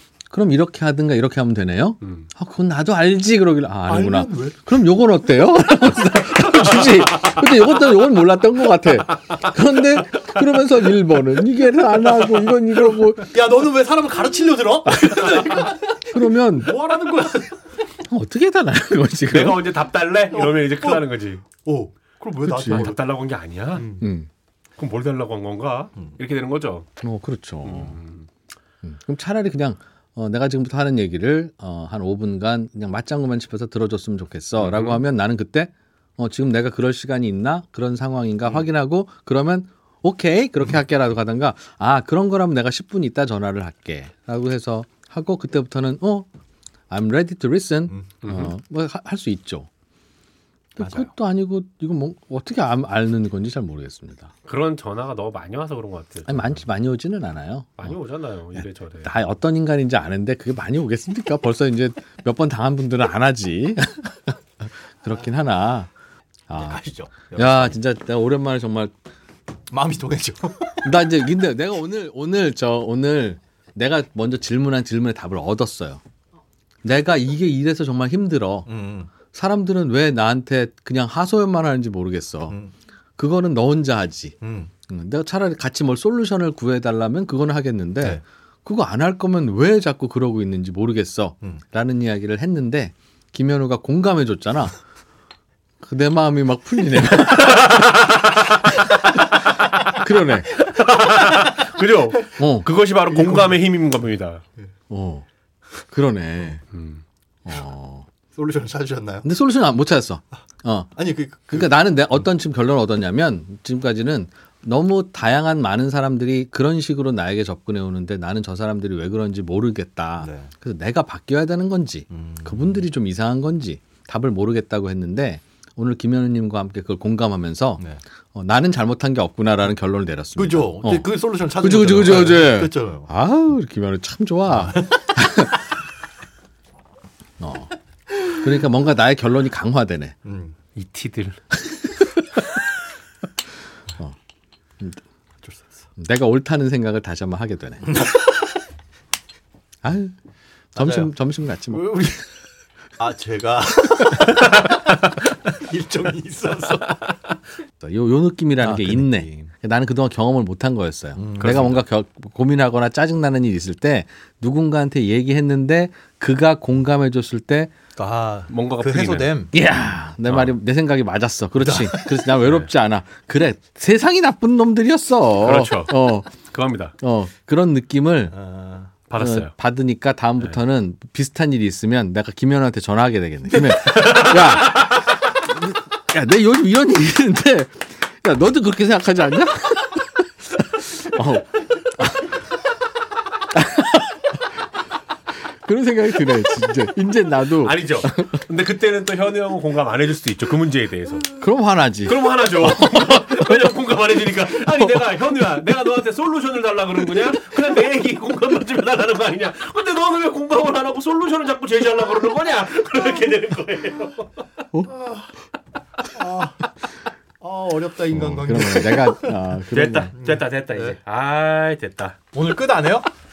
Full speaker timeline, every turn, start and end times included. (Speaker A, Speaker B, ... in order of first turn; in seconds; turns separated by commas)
Speaker A: 0.3-13.3, Speaker B: 3.9-4.6, Speaker C: 6.9-7.3, Speaker B: 13.2-15.8, Speaker C: 14.9-15.7, Speaker A: 16.1-16.8, Speaker B: 16.6-17.5, Speaker C: 16.9-17.3, Speaker A: 18.0-19.6, Speaker C: 19.3-21.4, Speaker B: 20.3-23.0, Speaker A: 22.5-22.9, Speaker C: 22.6-23.9, Speaker B: 23.7-24.1, Speaker A: 24.0-24.3, Speaker C: 24.8-26.9, Speaker A: 27.0-28.0, Speaker C: 27.6-28.2, Speaker A: 28.8-46.3, Speaker C: 34.6-35.0, Speaker A: 46.9-49.7, Speaker A: 50.8-54.3, Speaker B: 50.8-51.1, Speaker C: 54.5-56.6, Speaker A: 56.3-58.0, Speaker C: 57.8-59.1, Speaker A: 58.6-65.9, Speaker A: 66.5-66.8, Speaker B: 66.5-67.8, Speaker A: 67.3-68.9, Speaker B: 69.7-70.9, Speaker A: 70.8-76.0, Speaker A: 76.8-78.7, Speaker B: 78.7-79.1, Speaker A: 79.3-82.5, Speaker A: 83.2-84.3, Speaker B: 84.4-84.7, Speaker A: 84.9-94.7, Speaker A: 95.8-97.7, Speaker C: 97.0-100.0, Speaker A: 99.9-100.5, Speaker C: 100.6-104.4, Speaker A: 102.4-102.7, Speaker B: 103.2-103.6, Speaker A: 104.9-105.2, Speaker A: 105.9-106.6, Speaker C: 106.7-107.0, Speaker A: 107.5-108.1, Speaker B: 108.3-109.3, Speaker A: 109.2-110.9, Speaker B: 111.0-111.7, Speaker A: 111.5-127.8, Speaker B: 120.2-120.5, Speaker B: 122.1-122.7, Speaker A: 128.3-135.6, Speaker B: 130.3-133.1, Speaker B: 134.5-135.1, Speaker A: 137.4-137.7, Speaker A: 138.3-140.2, Speaker B: 140.2-140.5, Speaker C: 140.8-141.4, Speaker A: 141.9-142.4, Speaker B: 145.4-145.8, Speaker A: 146.0-148.0, Speaker A: 149.8-150.1, Speaker B: 150.7-151.1, Speaker A: 150.7-152.1, Speaker B: 151.7-152.2, Speaker B: 153.0-157.0, Speaker A: 157.8-167.7, Speaker B: 158.6-159.5, Speaker B: 161.2-161.8, Speaker B: 168.0-169.5, Speaker C: 168.5-169.3, Speaker A: 169.5-176.3, Speaker B: 171.6-172.2, Speaker C: 175.4-176.9, Speaker A: 177.0-178.3, Speaker B: 178.3-178.9, Speaker C: 179.1-179.5, Speaker A: 179.2-192.4, Speaker C: 183.8-185.1, Speaker A: 193.5-194.4, Speaker A: 195.6-198.4, Speaker C: 197.6-201.3, Speaker A: 201.3-203.6, Speaker C: 202.1-214.3, Speaker B: 214.9-215.3, Speaker B: 216.0-216.7, Speaker B: 217.4-219.3, Speaker A: 218.1-220.1, Speaker C: 219.7-222.2, Speaker B: 220.1-220.9, Speaker B: 222.3-223.1